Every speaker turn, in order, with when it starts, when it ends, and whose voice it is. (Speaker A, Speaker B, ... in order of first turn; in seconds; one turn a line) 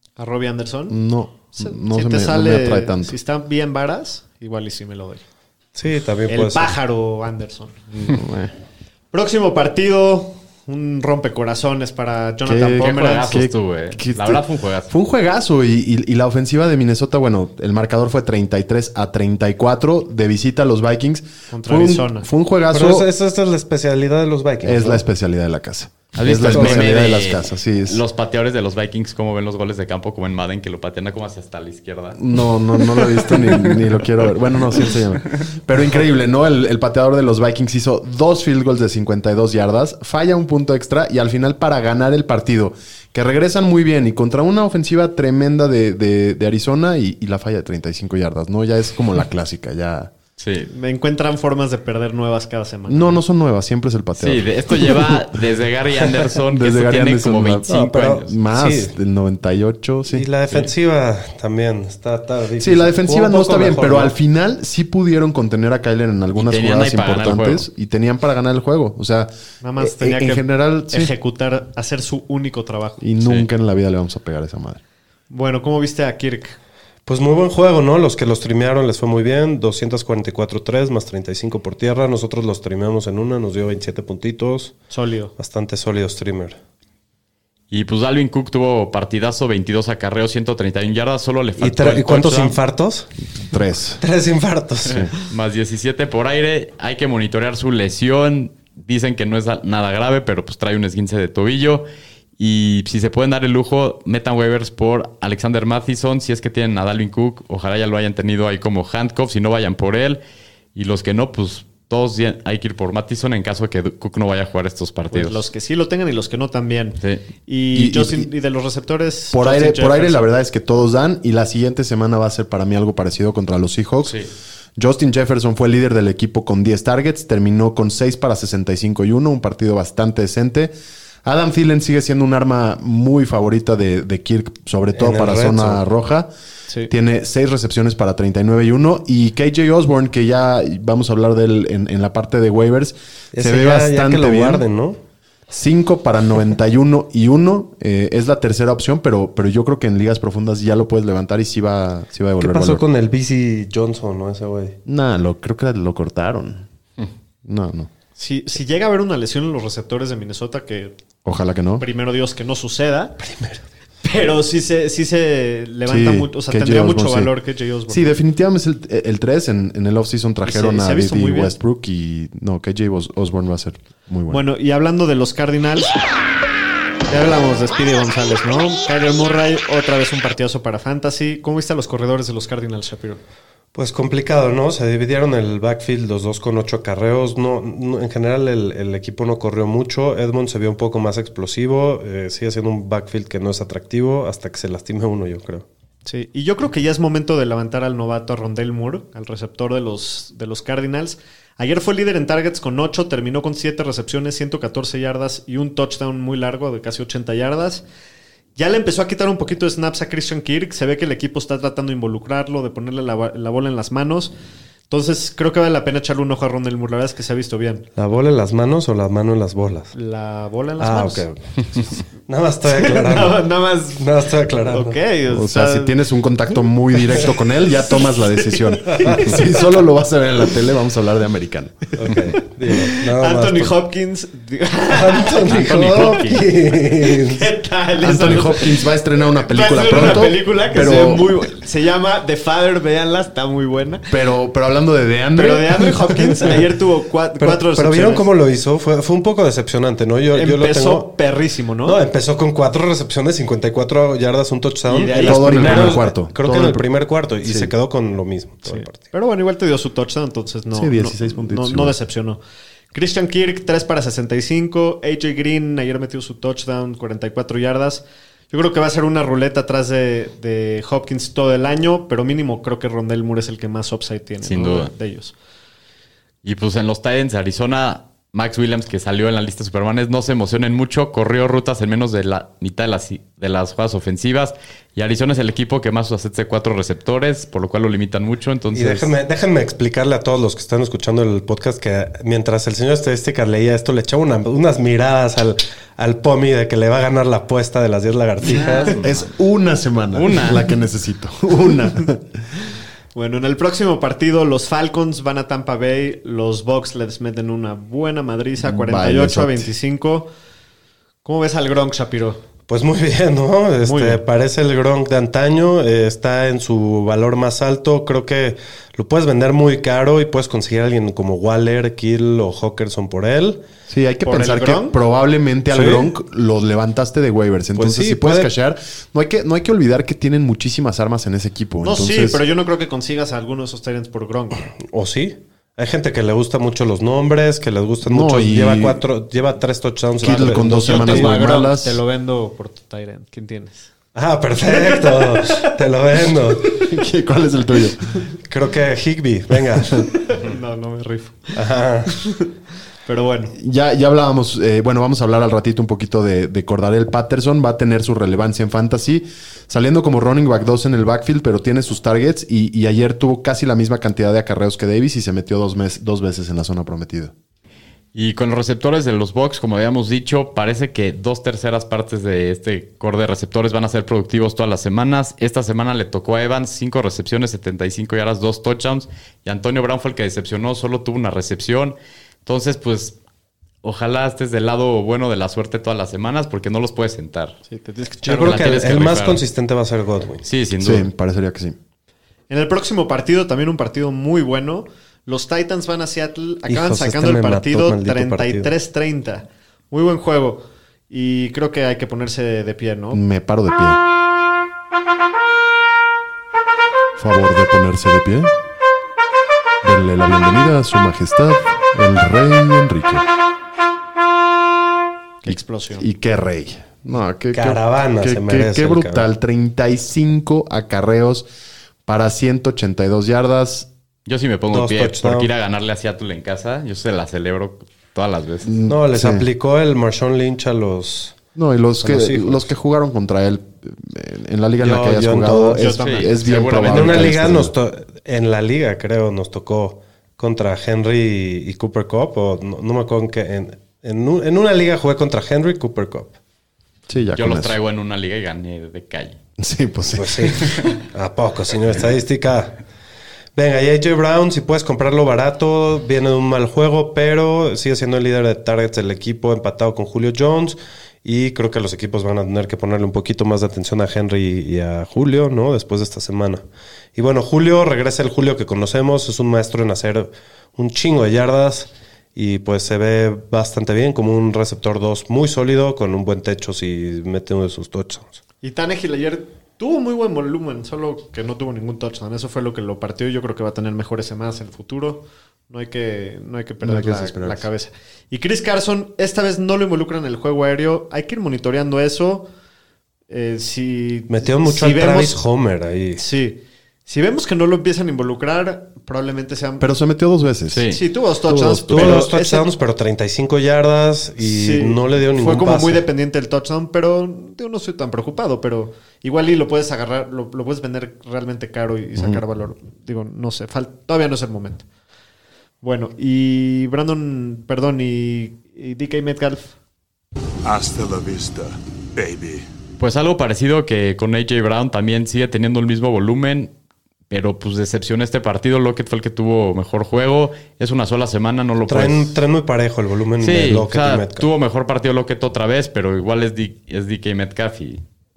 Speaker A: 0.2-1.0
Speaker B: 0.9-3.1
Speaker A: 1.5-5.2
Speaker C: 5.7-6.8
Speaker A: 6.3-7.8
Speaker B: 7.9-8.5
Speaker A: 9.1-13.4
Speaker B: 12.4-23.1
Speaker D: 12.8-14.9
Speaker A: 21.5-22.3
Speaker C: 22.7-25.0
Speaker B: 24.6-28.0
Speaker D: 26.1-32.2
Speaker C: 26.4-26.9
Speaker B: 32.1-50.1
Speaker D: 32.8-33.8
Speaker D: 50.4-50.7
Speaker A: 50.7-53.2
Speaker B: 52.9-55.4
Speaker D: 54.2-58.3
Speaker B: 56.2-57.6
Speaker C: 57.7-58.9
Speaker B: 58.2-60.2
Speaker C: 60.1-64.1
Speaker B: 62.6-71.1
Speaker D: 66.3-67.7
Speaker A: 69.6-73.0
Speaker B: 73.0-74.8
Speaker D: 73.2-73.5
Speaker A: 75.3-76.6
Speaker C: 77.0-84.8
Speaker A: 84.9-85.3
Speaker C: 85.3-86.6
Speaker D: 87.7-92.6
Speaker C: 91.6-93.1
Speaker B: 93.4-94.0
Speaker C: 94.0-95.1
Speaker D: 95.3-101.8
Speaker D: 102.4-110.2
Speaker D: 110.7-115.4
Speaker A: 115.1-120.3
Speaker B: 117.7-118.3
Speaker B: 119.3-124.2
Speaker B: 124.8-130.7
Speaker B: 131.2-136.3
Speaker C: 134.9-135.8
Speaker B: 136.9-144.6
Speaker C: 143.3-145.0
Speaker B: 145.5-152.8
Speaker C: 152.4-154.8
Speaker B: 154.8-156.6
Speaker B: 157.4-157.9
Speaker A: 158.2-160.9
Speaker B: 161.2-161.8
Speaker A: 161.8-163.2
Speaker C: 163.2-163.6
Speaker A: 164.0-168.2
Speaker B: 165.8-167.3
Speaker B: 167.9-174.4
Speaker A: 170.4-171.5
Speaker A: 174.3-175.9
Speaker A: 177.1-183.2
Speaker C: 183.7-195.7
Speaker A: 196.1-207.8
Speaker A: 208.6-214.3
Speaker A: 214.9-217.9
Speaker C: 217.9-219.9
Speaker A: 219.9-221.2
Speaker C: 220.8-223.4
Speaker A: 222.6-225.9
Speaker C: 224.0-225.0
Speaker B: 225.3-231.9
Speaker A: 227.1-229.8
Speaker C: 232.0-233.8
Speaker A: 232.0-236.1
Speaker C: 234.9-237.5
Speaker D: 235.4-236.5
Speaker A: 236.7-244.1
Speaker B: 238.0-241.4
Speaker B: 244.1-246.6
Speaker A: 245.3-248.3
Speaker C: 247.4-251.1
Speaker A: 250.3-252.0
Speaker C: 251.8-259.1
Speaker A: 254.9-256.0
Speaker B: 255.2-256.9
Speaker B: 257.4-257.7
Speaker A: 258.6-262.4
Speaker B: 260.7-261.9
Speaker A: 262.9-275.3
Speaker D: 274.4-274.9
Speaker D: 276.4-289.1
Speaker C: 288.7-298.9
Speaker D: 298.5-299.3
Speaker B: 299.0-302.4
Speaker D: 300.1-300.7
Speaker A: 303.1-310.3
Speaker B: 308.6-309.7
Speaker A: 311.2-312.4
Speaker C: 312.7-323.6
Speaker A: 313.8-314.2
Speaker B: 323.9-332.4
Speaker A: 324.2-324.9
Speaker C: 325.7-326.1
Speaker C: 327.8-328.5
Speaker A: 331.8-334.6
Speaker C: 334.9-341.4
Speaker B: 338.0-339.0
Speaker B: 340.2-342.0
Speaker A: 340.7-343.9
Speaker C: 344.1-346.8
Speaker A: 344.7-345.7
Speaker B: 346.7-348.0
Speaker C: 348.4-350.1
Speaker B: 349.7-350.1
Speaker A: 350.2-351.5
Speaker C: 351.5-352.1
Speaker A: 352.1-352.5
Speaker A: 353.0-353.6
Speaker B: 353.5-367.3
Speaker D: 368.1-383.1
Speaker D: 383.8-387.6
Speaker A: 387.7-388.5
Speaker C: 388.2-390.4
Speaker D: 388.2-389.4
Speaker D: 390.4-391.1
Speaker B: 390.8-391.8
Speaker A: 392.5-403.2
Speaker C: 396.7-398.7
Speaker B: 403.1-404.0
Speaker B: 407.2-408.5
Speaker B: 409.8-413.2
Speaker A: 415.4-416.1
Speaker B: 415.5-421.4
Speaker C: 417.5-419.2
Speaker B: 422.1-423.9
Speaker D: 424.2-428.7
Speaker C: 424.7-425.5
Speaker B: 428.6-429.4
Speaker C: 428.9-431.4
Speaker B: 431.6-437.7
Speaker C: 432.0-432.6
Speaker C: 434.8-435.9
Speaker A: 435.8-437.2
Speaker D: 436.0-437.4
Speaker C: 436.8-446.4
Speaker B: 447.1-447.8
Speaker D: 447.4-449.4
Speaker B: 449.6-450.8
Speaker C: 450.1-452.8
Speaker C: 453.5-466.6
Speaker C: 467.1-478.4
Speaker A: 478.6-492.5
Speaker B: 486.8-487.7
Speaker A: 493.3-495.4
Speaker C: 494.3-496.2
Speaker A: 496.2-499.9
Speaker B: 499.8-500.8
Speaker D: 500.7-501.0
Speaker A: 500.9-502.6
Speaker C: 501.5-506.0
Speaker B: 501.9-502.2
Speaker A: 504.4-514.8
Speaker B: 512.1-512.4
Speaker A: 515.8-519.7
Speaker E: 520.6-522.6
Speaker D: 523.0-526.7
Speaker D: 527.3-532.4
Speaker C: 531.9-534.5
Speaker D: 533.4-538.0